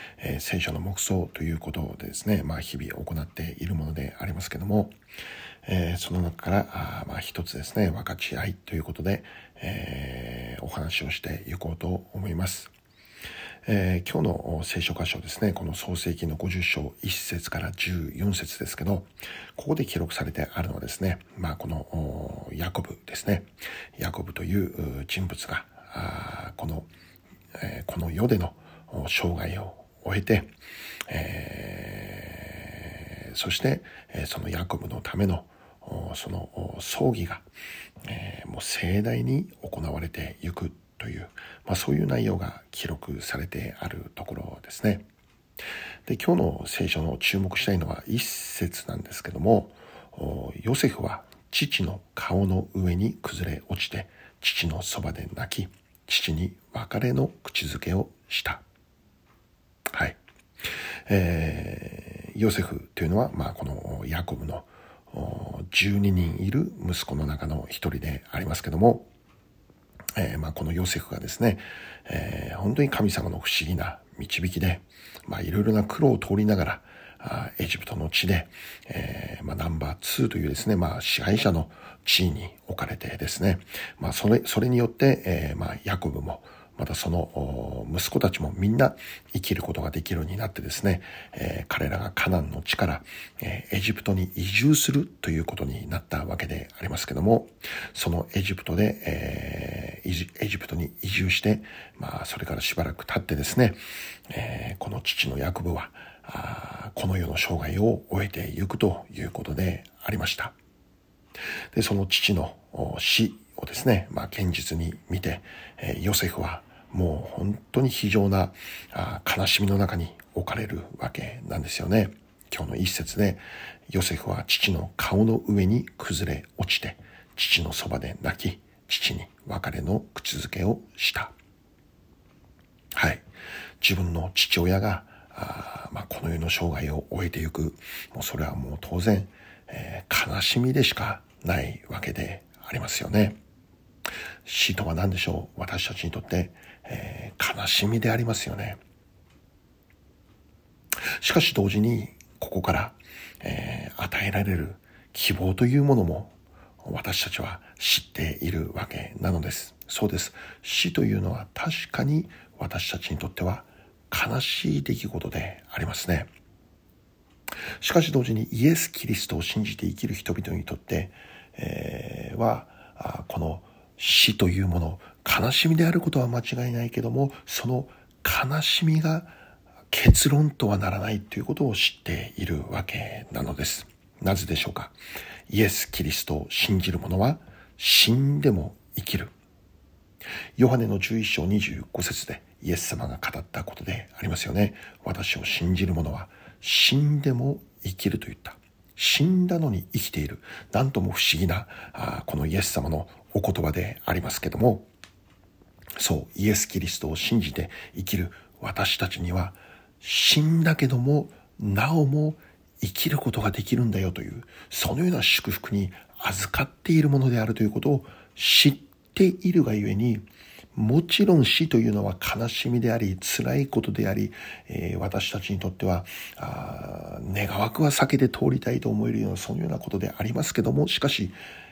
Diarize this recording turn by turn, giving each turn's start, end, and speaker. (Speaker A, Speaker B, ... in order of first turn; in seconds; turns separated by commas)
Speaker A: 0.2-5.0, Speaker A: 5.6-12.7, Speaker A: 13.7-26.9, Speaker A: 27.6-30.5, Speaker A: 31.1-37.5, Speaker A: 38.0-45.1, Speaker A: 46.1-58.6, Speaker A: 59.9-60.2, Speaker A: 61.1-69.1, Speaker A: 70.2-110.6, Speaker A: 111.7-131.3, Speaker A: 132.9-133.2, Speaker A: 133.8-143.4, Speaker A: 144.4-148.8, Speaker A: 151.2-166.3, Speaker A: 167.8-179.4, Speaker A: 179.9-185.0, Speaker A: 185.5-189.3, Speaker A: 190.6-204.9, Speaker A: 206.0-231.4